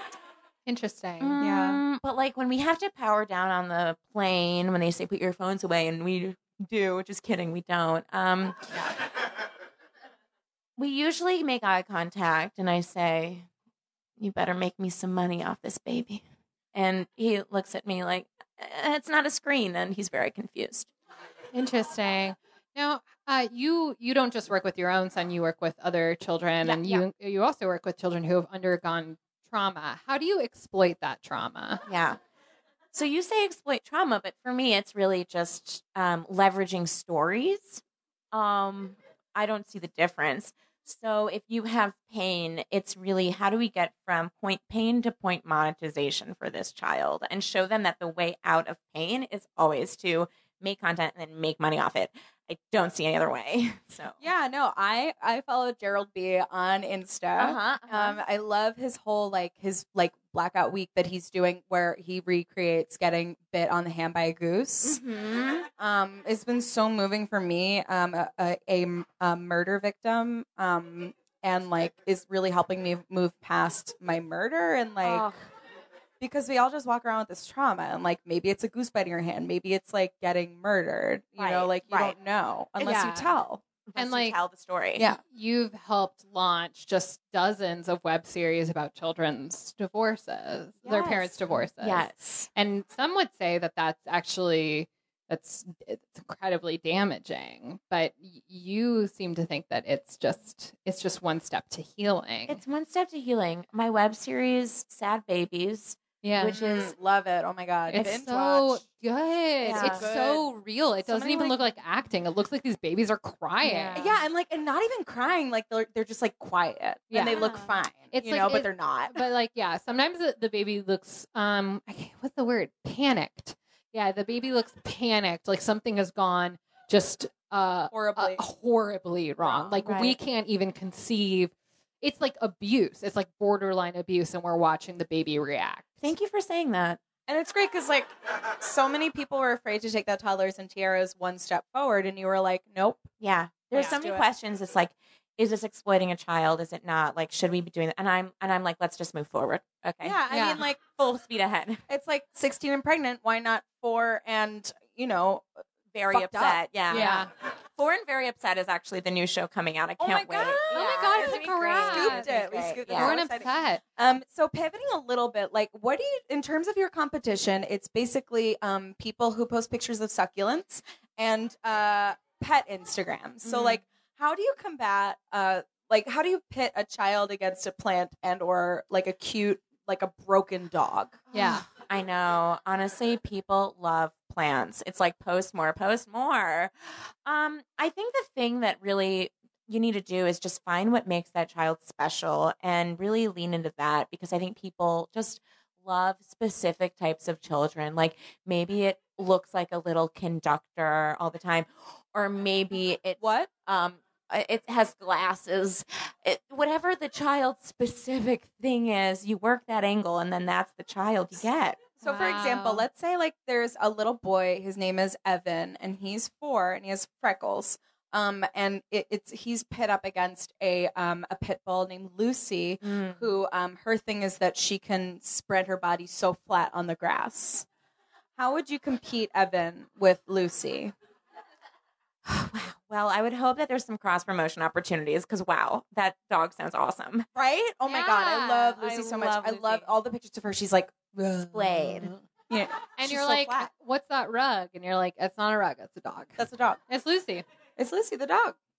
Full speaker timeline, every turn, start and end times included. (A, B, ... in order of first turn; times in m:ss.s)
0:00.6-0:01.4 A
0:01.2-0:08.6 B
0:01.4-0:01.8 C
0:10.8-0:13.5 B
0:14.2-0:16.2 B
0:16.7-0:20.9 B
0:21.5-0:31.8 A
0:26.6-0:27.0 B
0:31.8-0:32.2 B
0:32.9-0:54.2 B
0:54.2-1:05.0 C
0:57.4-0:58.2 B
1:04.8-1:05.7 B
1:05.8-1:15.3 C
1:15.0-1:15.4 B
1:16.2-1:23.6 C
1:21.4-1:22.1 B
1:22.8-1:23.3 A
1:23.9-1:25.1 B
1:24.0-1:24.4 A
1:25.2-1:42.6 A
1:30.8-1:32.5 B
1:42.5-1:46.9 B
1:46.2-1:46.6 A
1:46.5-1:48.8 C
1:47.9-1:54.1 A
1:49.6-1:50.0 B
1:49.7-1:50.5 C
1:51.0-1:51.6 C
1:53.6-1:54.1 B
1:53.9-1:59.2 C
1:57.1-1:57.5 A
1:57.2-1:57.7 B
1:58.1-2:16.0 A
2:07.9-2:08.4 C
2:09.8-2:10.2 B
2:16.0-2:17.0 B
2:17.3-2:23.1 C
2:23.2-2:31.8 B
2:23.7-2:24.3 C
2:30.0-2:30.8 C
2:30.3-2:30.6 A
2:31.9-2:35.5 C
2:35.9-2:43.2 B
2:36.1-2:37.2 C
2:36.9-2:37.3 A
2:40.0-3:01.3 C
2:40.7-2:42.3 A
2:42.9-2:43.8 A
2:53.4-2:53.8 B
3:01.3-3:01.6 A
3:01.4-3:31.9 B
3:23.2-3:23.5 C
3:32.0-3:47.7 C
3:32.0-3:32.8 A
3:42.8-3:43.2 B
3:48.4-3:50.9 C
3:52.2-3:57.3 B
3:57.3-4:03.7 C
3:57.8-3:58.8 A
3:58.7-3:59.9 B
4:01.5-4:02.1 B
4:03.0-4:07.4 A
4:06.4-4:06.8 C
4:07.8-4:08.6 C